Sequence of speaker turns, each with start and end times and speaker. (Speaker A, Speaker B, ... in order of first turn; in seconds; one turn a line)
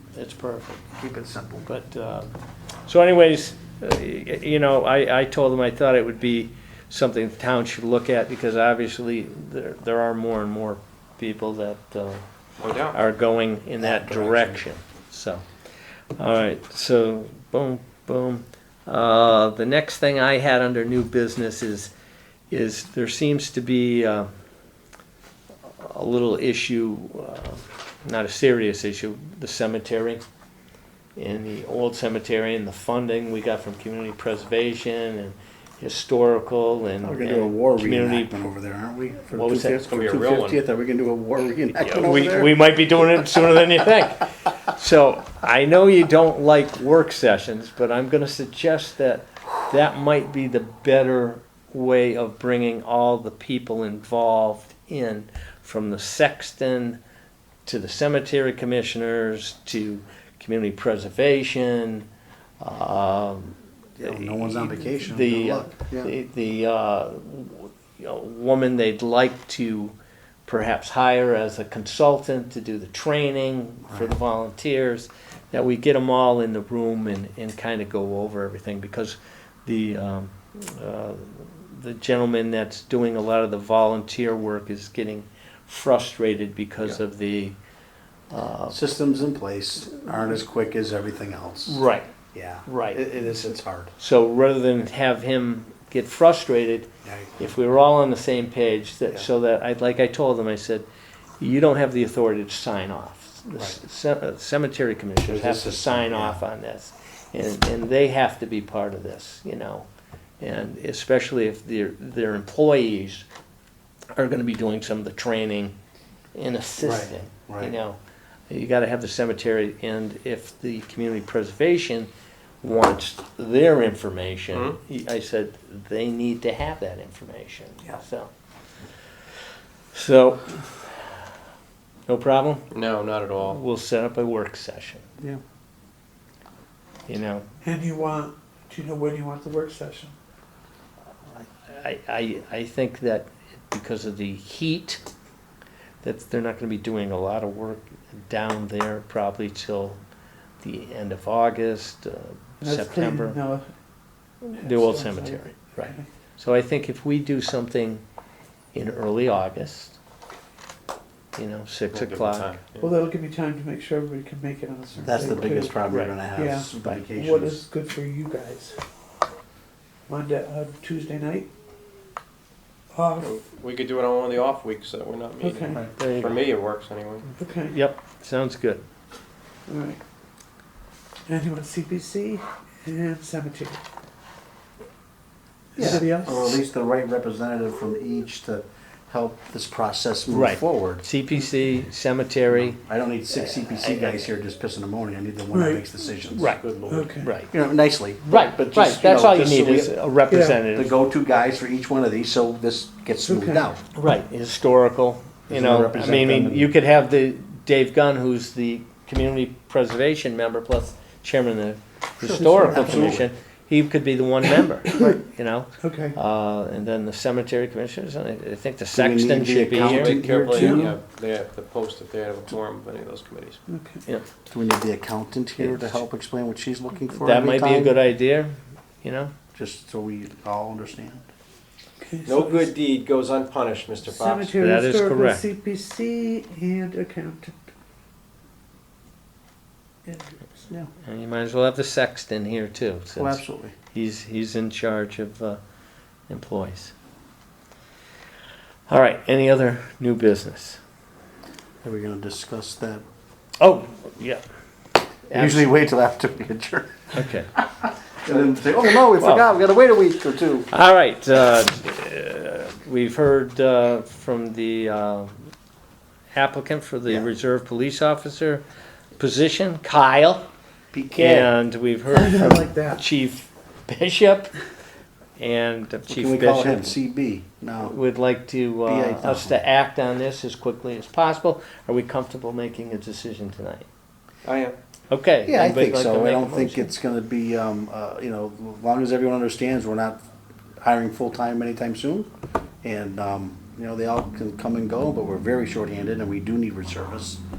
Speaker A: 0.1-0.9
Speaker B: 0.9-1.6
Speaker A: 1.6-2.3
Speaker A: 2.9-12.2
Speaker C: 12.6-13.0
Speaker A: 12.9-15.4
Speaker B: 13.8-14.6
Speaker A: 16.2-21.9
Speaker A: 22.5-24.3
Speaker A: 25.7-30.2
Speaker A: 31.2-38.5
Speaker B: 37.0-42.8
Speaker A: 39.3-39.8
Speaker C: 39.8-40.6
Speaker C: 41.8-42.1
Speaker A: 42.0-57.0
Speaker A: 57.7-62.0
Speaker A: 62.6-69.9
Speaker B: 64.0-66.1
Speaker A: 70.5-87.5
Speaker B: 73.8-74.2
Speaker A: 88.3-88.8
Speaker B: 88.7-91.8
Speaker A: 91.7-92.1
Speaker B: 92.3-93.9
Speaker A: 92.7-93.0
Speaker A: 94.0-100.9
Speaker B: 97.0-97.3
Speaker A: 101.4-109.9
Speaker B: 105.3-106.4
Speaker A: 110.4-113.2
Speaker A: 114.2-115.8
Speaker A: 116.3-118.0
Speaker B: 116.8-117.7
Speaker A: 118.5-122.1
Speaker A: 122.6-128.3
Speaker C: 124.5-124.8
Speaker A: 129.9-131.1
Speaker A: 132.1-132.8
Speaker C: 132.7-133.6
Speaker A: 133.4-135.1
Speaker A: 137.1-137.4
Speaker D: 137.6-140.1
Speaker A: 141.7-145.0
Speaker A: 146.0-150.0
Speaker A: 150.6-153.4
Speaker D: 152.6-153.7
Speaker A: 154.4-158.0
Speaker D: 154.5-156.1
Speaker A: 158.7-160.0
Speaker A: 161.3-162.5
Speaker C: 161.9-163.0
Speaker D: 162.8-165.8
Speaker B: 165.0-167.6
Speaker A: 165.9-166.1
Speaker D: 166.4-168.8
Speaker D: 170.1-171.5
Speaker D: 172.9-173.3
Speaker C: 173.2-177.3
Speaker D: 175.4-175.8
Speaker A: 176.0-176.5
Speaker D: 177.4-177.8
Speaker A: 177.7-178.8
Speaker D: 179.7-180.0
Speaker D: 181.3-183.8
Speaker D: 185.8-186.6
Speaker B: 185.8-191.0
Speaker A: 190.3-192.8
Speaker B: 192.5-199.9
Speaker A: 193.3-194.3
Speaker D: 195.5-195.8
Speaker A: 196.3-197.5
Speaker D: 196.9-197.3
Speaker A: 198.2-200.9
Speaker D: 200.3-200.6
Speaker B: 200.7-203.8
Speaker D: 203.3-203.6
Speaker A: 203.9-220.2
Speaker B: 205.5-206.7
Speaker B: 212.2-213.3
Speaker D: 212.3-213.0
Speaker D: 215.8-216.2
Speaker B: 218.9-220.9
Speaker C: 219.7-223.6
Speaker D: 220.5-220.9
Speaker D: 223.7-224.0
Speaker B: 224.5-228.0
Speaker A: 225.6-226.0
Speaker A: 227.2-229.3
Speaker B: 229.5-231.3
Speaker D: 232.0-232.7
Speaker C: 232.2-234.6
Speaker D: 234.1-237.6
Speaker A: 234.6-235.5
Speaker D: 240.1-240.3
Speaker A: 241.0-243.4
Speaker B: 243.2-243.8
Speaker A: 243.9-245.6
Speaker A: 246.3-246.9
Speaker A: 248.9-250.8
Speaker B: 251.8-253.0
Speaker A: 253.6-254.4
Speaker A: 255.3-255.7
Speaker B: 255.3-257.1
Speaker A: 257.1-257.5
Speaker B: 258.2-260.7
Speaker A: 259.2-259.5
Speaker A: 260.7-265.5
Speaker A: 266.3-268.6
Speaker A: 269.2-270.5
Speaker B: 270.9-271.5
Speaker A: 271.1-274.5
Speaker D: 272.1-273.0
Speaker A: 275.4-277.0
Speaker B: 276.1-278.0
Speaker A: 277.8-283.9
Speaker B: 278.9-279.6
Speaker C: 284.4-284.8
Speaker A: 285.1-286.9
Speaker B: 285.5-290.2
Speaker B: 290.8-292.3
Speaker B: 292.8-297.4